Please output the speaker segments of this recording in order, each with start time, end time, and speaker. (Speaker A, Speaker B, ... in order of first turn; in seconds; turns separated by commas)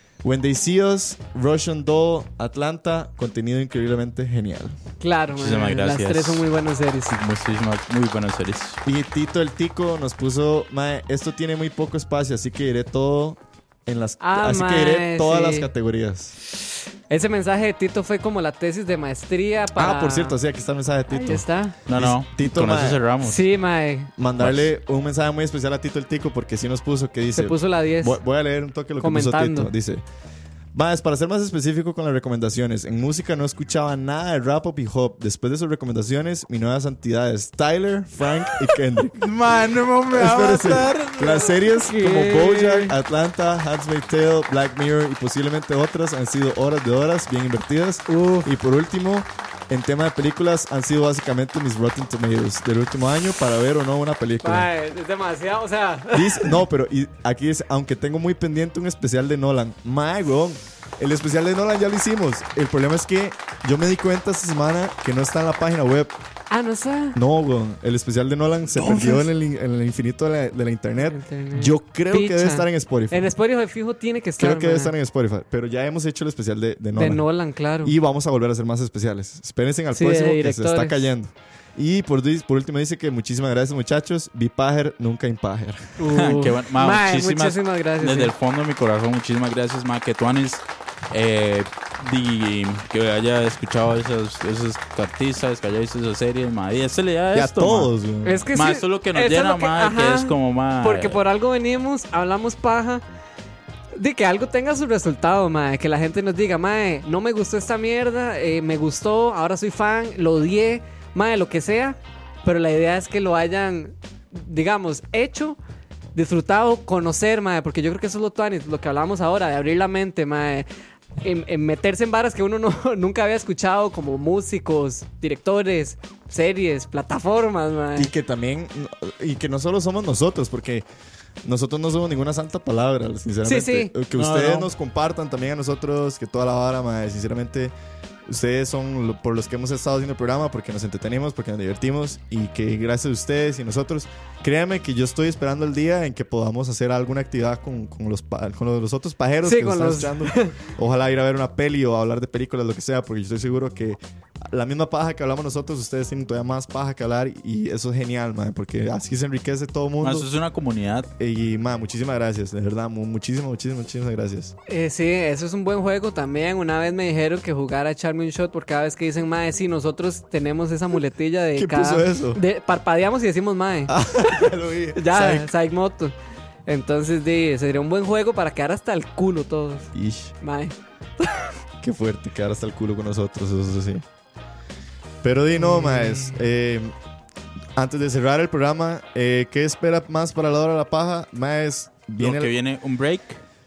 Speaker A: 0.2-4.8, Speaker B: 5.0-7.2, Speaker C: 5.4-6.5, Speaker C: 7.1-8.8, Speaker A: 8.8-16.4, Speaker B: 14.2-15.7, Speaker B: 17.1-20.4, Speaker A: 19.7-23.0, Speaker B: 21.1-21.8, Speaker C: 21.9-23.4, Speaker B: 23.2-24.1, Speaker A: 24.2-30.0, Speaker C: 24.4-24.7, Speaker B: 27.4-28.2, Speaker B: 29.0-29.7, Speaker A: 30.7-39.2, Speaker C: 39.2-41.5, Speaker A: 40.1-54.7, Speaker B: 41.5-43.0, Speaker B: 48.1-48.5, Speaker B: 54.4-56.6, Speaker A: 56.1-66.2, Speaker B: 66.5-67.2, Speaker A: 67.2-73.3, Speaker B: 71.0-74.9, Speaker A: 74.4-77.2, Speaker B: 77.0-77.9, Speaker A: 77.8-86.0, Speaker B: 79.9-81.1, Speaker B: 86.0-88.3, Speaker C: 86.1-97.9, Speaker A: 97.3-98.5, Speaker B: 98.2-103.0, Speaker C: 98.5-101.2, Speaker B: 104.0-115.6, Speaker B: 116.2-120.7, Speaker B: 121.2-128.1, Speaker A: 128.0-130.9, Speaker A: 131.4-137.7, Speaker B: 133.4-133.9, Speaker C: 134.1-134.7, Speaker A: 138.3-160.3, Speaker B: 149.4-150.6, Speaker C: 160.0-161.1, Speaker A: 161.2-164.5, Speaker B: 164.7-176.1, Speaker A: 171.6-172.4, Speaker A: 173.9-175.5, Speaker B: 176.7-179.9, Speaker A: 179.9-180.3, Speaker B: 180.4-181.5, Speaker A: 181.8-184.0, Speaker A: 185.2-186.9, Speaker B: 185.6-186.4, Speaker A: 187.8-192.5, Speaker C: 192.2-193.4